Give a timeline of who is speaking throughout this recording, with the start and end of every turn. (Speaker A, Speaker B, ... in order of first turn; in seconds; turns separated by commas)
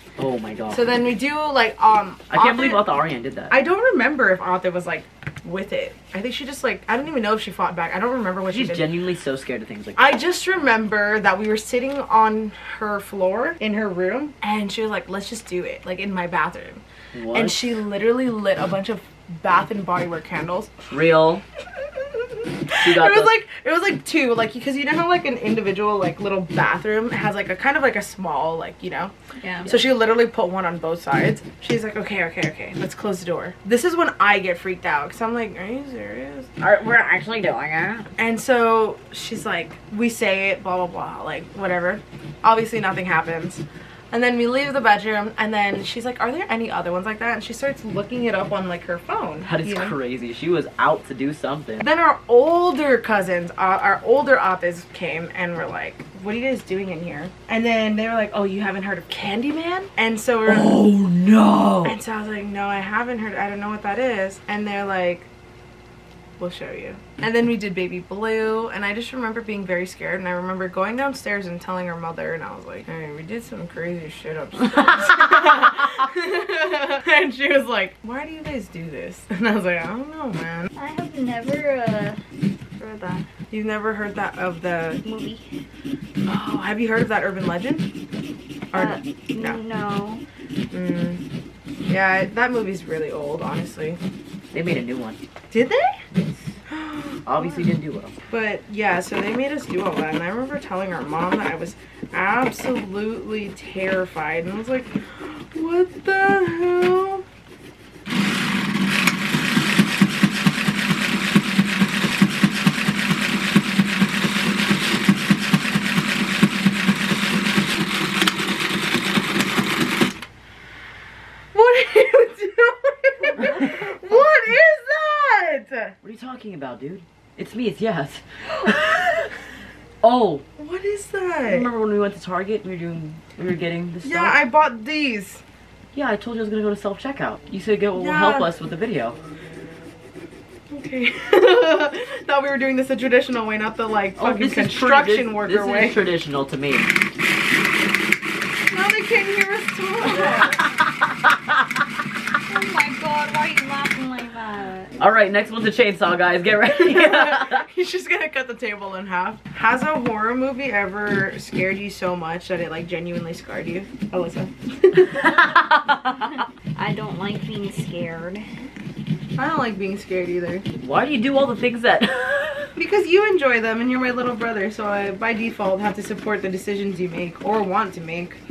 Speaker A: 0.2-0.8, Speaker B: 0.7-2.9, Speaker A: 2.3-3.5, Speaker B: 3.5-8.8, Speaker A: 8.5-10.1, Speaker B: 9.9-20.7, Speaker A: 17.1-17.8, Speaker A: 20.9-21.4, Speaker B: 22.0-29.1, Speaker A: 22.8-23.4, Speaker C: 29.4-29.7, Speaker B: 29.6-36.5, Speaker A: 36.6-38.1, Speaker B: 38.2-50.0, Speaker A: 49.5-51.8, Speaker B: 51.8-60.8, Speaker A: 60.5-62.0, Speaker B: 61.8-65.3, Speaker B: 66.4-80.7, Speaker C: 80.8-82.2, Speaker C: 82.8-83.3, Speaker B: 83.5-85.0, Speaker C: 85.0-85.4, Speaker B: 86.3-87.9, Speaker B: 88.7-89.6, Speaker C: 88.7-90.2, Speaker B: 90.7-91.2, Speaker B: 91.9-94.0, Speaker A: 94.5-95.2, Speaker B: 95.5-96.0, Speaker A: 96.1-96.5, Speaker B: 96.7-97.2, Speaker A: 97.2-98.1, Speaker B: 98.3-107.2, Speaker B: 121.5-125.9, Speaker A: 126.0-129.0, Speaker A: 130.0-130.4, Speaker B: 130.6-131.7, Speaker A: 131.5-134.3, Speaker B: 134.0-135.4, Speaker A: 135.9-139.2, Speaker B: 137.9-138.5, Speaker B: 140.7-146.0, Speaker A: 144.2-146.9, Speaker B: 148.7-150.8, Speaker A: 150.7-151.8, Speaker C: 152.5-154.9, Speaker A: 155.0-157.7, Speaker B: 156.9-165.3, Speaker A: 165.2-166.3, Speaker C: 166.8-168.5, Speaker B: 169.4-170.7, Speaker A: 170.8-172.7, Speaker B: 172.8-178.4